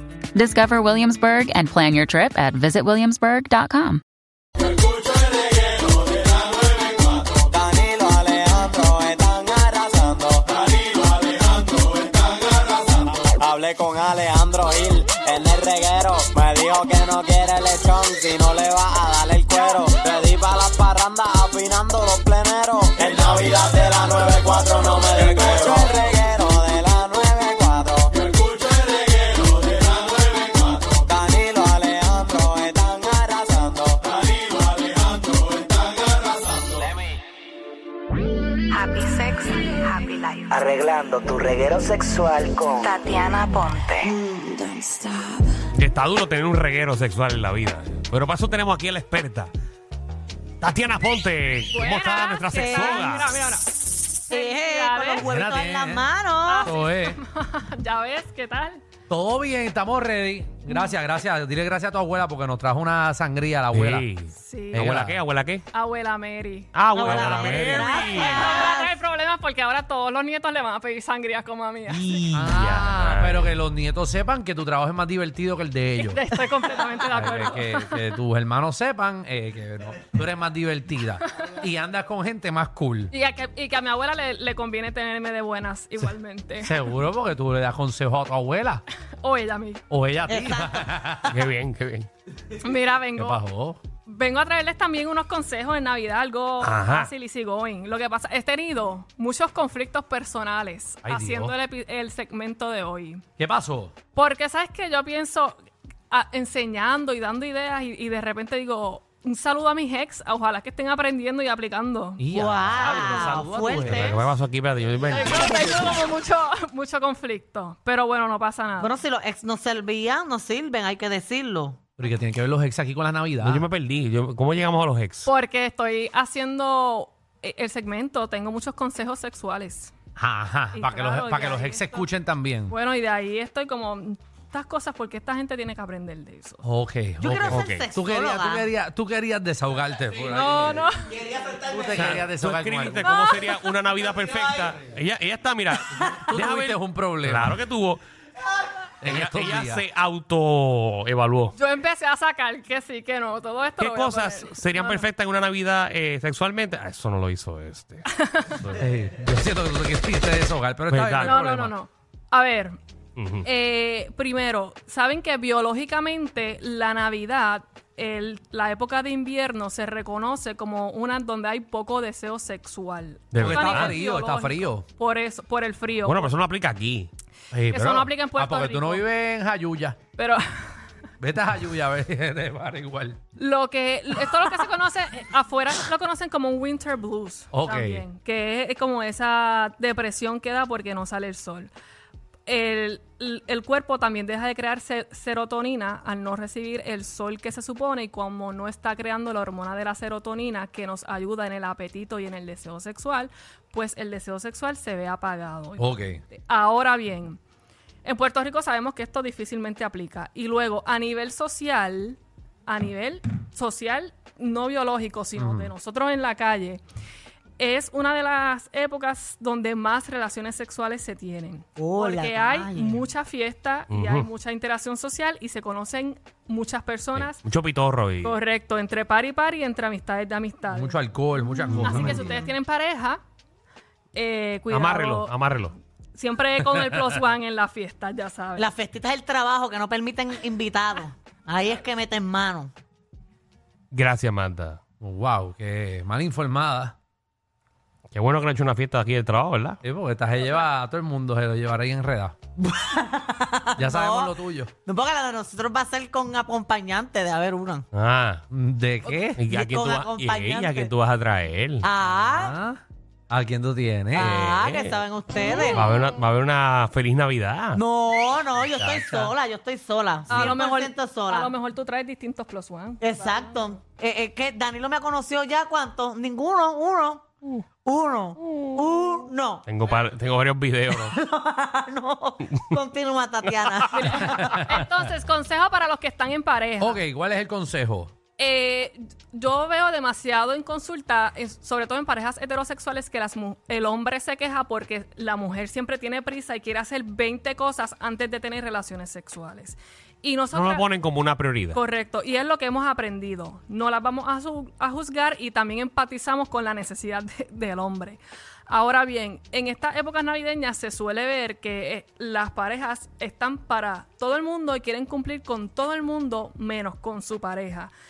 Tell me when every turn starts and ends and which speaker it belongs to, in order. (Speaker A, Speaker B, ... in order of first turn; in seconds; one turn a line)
Speaker A: 0.4-4.0
Speaker B: 7.3-28.1
Speaker B: 30.9-34.1
Speaker C: 38.7-40.5
Speaker D: 40.6-42.9
Speaker C: 42.8-45.4
Speaker E: 45.7-49.5
Speaker E: 50.6-53.4
Speaker F: 51.7-55.3
Speaker G: 52.5-53.2
Speaker G: 54.3-56.8
Speaker H: 55.2-56.1
Speaker F: 56.5-58.8
Speaker H: 56.6-57.2
Speaker H: 59.1-64.1
Speaker F: 60.7-61.0
Speaker E: 63.7-65.7
Speaker F: 64.4-64.9
Speaker H: 64.7-65.2
Speaker F: 65.7-72.2
Speaker E: 66.7-68.5
Speaker G: 66.9-68.9
Speaker E: 71.9-73.5
Speaker H: 72.3-76.2
Speaker F: 76.0-78.2
Speaker H: 77.1-83.1
Speaker F: 83.1-86.9
Speaker H: 86.6-88.8
Speaker F: 89.2-89.8
Speaker H: 89.9-91.4
Speaker G: 90.3-91.1
Speaker E: 91.3-92.1
Speaker F: 92.5-93.4
Speaker H: 93.2-93.8
Speaker F: 94.0-103.2
Speaker E: 96.6-97.1
Speaker H: 101.0-101.6
Speaker H: 103.4-104.0
Speaker F: 104.1-112.3
Speaker H: 112.2-114.2
Speaker G: 112.3-114.3
Speaker E: 112.9-115.9
Speaker F: 115.1-119.0
Speaker G: 118.8-121.8
Speaker H: 122.0-123.7
Speaker E: 123.4-125.3
Speaker F: 125.2-129.9
Speaker H: 130.2-132.8
Speaker F: 130.7-132.1
Speaker F: 132.7-136.6
Speaker H: 136.6-140.9
Speaker G: 137.2-138.7
Speaker E: 137.5-137.9
Speaker F: 140.3-141.2
Speaker H: 141.4-143.1
Speaker E: 141.9-148.0
Speaker F: 143.0-143.7
Speaker H: 145.9-147.6
Speaker H: 149.0-149.8
Speaker E: 149.0-151.6
Speaker F: 151.6-155.1
Speaker E: 153.8-158.8
Speaker F: 158.1-158.5
Speaker H: 158.7-161.8
Speaker E: 160.9-161.4
Speaker F: 161.2-162.8
Speaker E: 163.2-163.5
Speaker F: 163.4-176.3
Speaker E: 173.3-174.0
Speaker H: 173.4-174.8
Speaker E: 176.0-177.1
Speaker H: 177.5-180.0
Speaker F: 177.7-179.1
Speaker F: 180.2-180.4
Speaker H: 181.2-183.2
Speaker F: 183.4-191.7
Speaker H: 187.5-188.0
Speaker F: 192.5-207.4
Speaker H: 205.8-206.2
Speaker F: 208.0-216.8
Speaker H: 215.4-215.7
Speaker F: 217.6-227.4
Speaker G: 221.8-223.0
Speaker E: 223.9-224.3
Speaker E: 227.2-228.4
Speaker F: 228.2-231.0
Speaker H: 230.7-232.3
Speaker G: 231.5-232.5
Speaker F: 231.7-233.2
Speaker F: 234.1-235.3
Speaker E: 234.7-235.7
Speaker F: 236.2-238.7
Speaker H: 236.7-237.0
Speaker G: 238.6-242.7
Speaker E: 243.9-244.8
Speaker H: 245.0-246.9
Speaker E: 248.1-249.8
Speaker H: 249.8-252.4
Speaker G: 252.6-257.9
Speaker H: 253.8-254.7
Speaker E: 257.9-258.4
Speaker H: 258.5-259.4
Speaker G: 259.1-260.9
Speaker E: 259.4-261.9
Speaker G: 261.8-262.6
Speaker H: 262.3-264.7
Speaker G: 264.1-265.9
Speaker E: 264.5-267.8
Speaker G: 267.7-271.5
Speaker H: 268.6-269.4
Speaker F: 270.3-273.5
Speaker G: 273.0-277.2
Speaker G: 277.8-279.6
Speaker E: 279.6-281.1
Speaker G: 280.9-284.6
Speaker F: 283.9-287.0
Speaker H: 284.4-284.8
Speaker H: 286.8-288.1
Speaker F: 288.4-300.9
Speaker E: 300.5-301.8
Speaker F: 301.7-317.9